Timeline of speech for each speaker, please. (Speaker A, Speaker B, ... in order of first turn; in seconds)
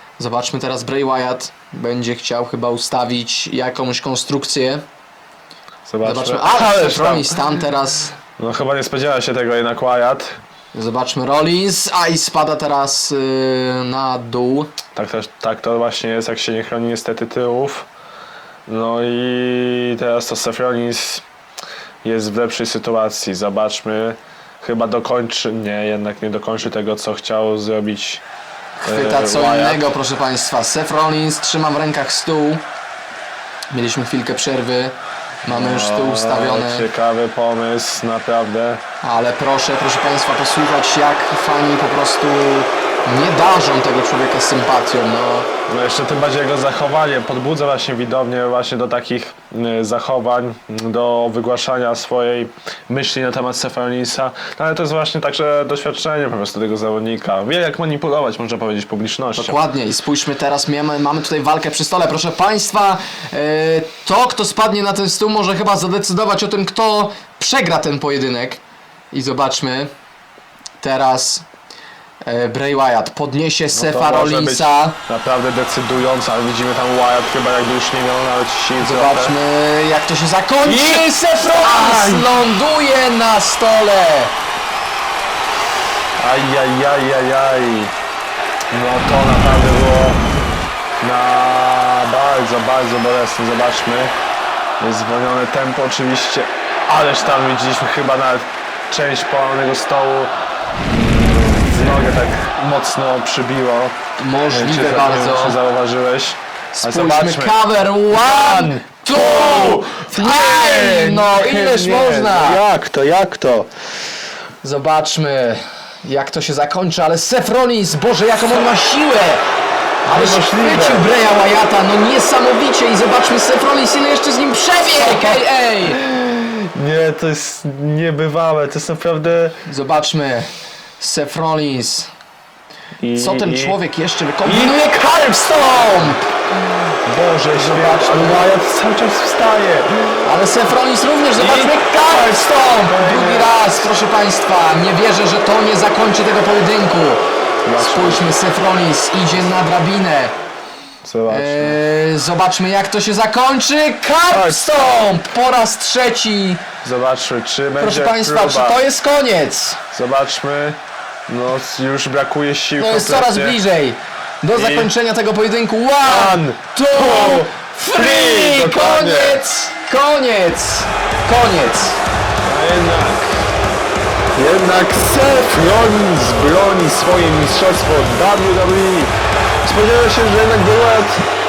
Speaker A: 0.2-4.8, 6.0-8.2, 10.7-14.7, 28.8-32.6, 33.7-36.9, 39.0-45.5, 59.4-68.6, 69.1-69.9, 70.8-71.5, 72.2-75.0, 78.8-84.3, 104.2-105.6, 106.7-112.6, 114.6-119.4, 120.0-126.0, 129.7-130.5, 131.0-132.1, 133.2-136.3, 137.5-138.4, 140.2-147.2, 147.8-150.3, 151.3-156.6, 157.8-159.8, 162.8-172.0
Speaker B: 5.9-7.5, 8.4-10.4, 14.9-17.9, 18.7-21.2, 22.0-28.2, 28.8-29.9, 35.5-38.8, 45.7-59.5, 73.7-79.3, 80.6-82.3, 86.2-87.9, 88.7-90.2, 91.0-94.1, 94.8-100.3, 100.9-103.9, 104.5-107.5, 108.1-113.7, 120.0-121.0, 125.9-129.6, 133.0-133.8, 134.4-134.9, 137.0-140.2, 141.4-143.8, 147.7-148.2, 151.0-151.8, 154.3-154.6, 156.8-158.8, 159.9-163.6, 164.5-164.9, 166.0-169.4, 172.4-173.4, 174.3-179.1, 179.6-181.2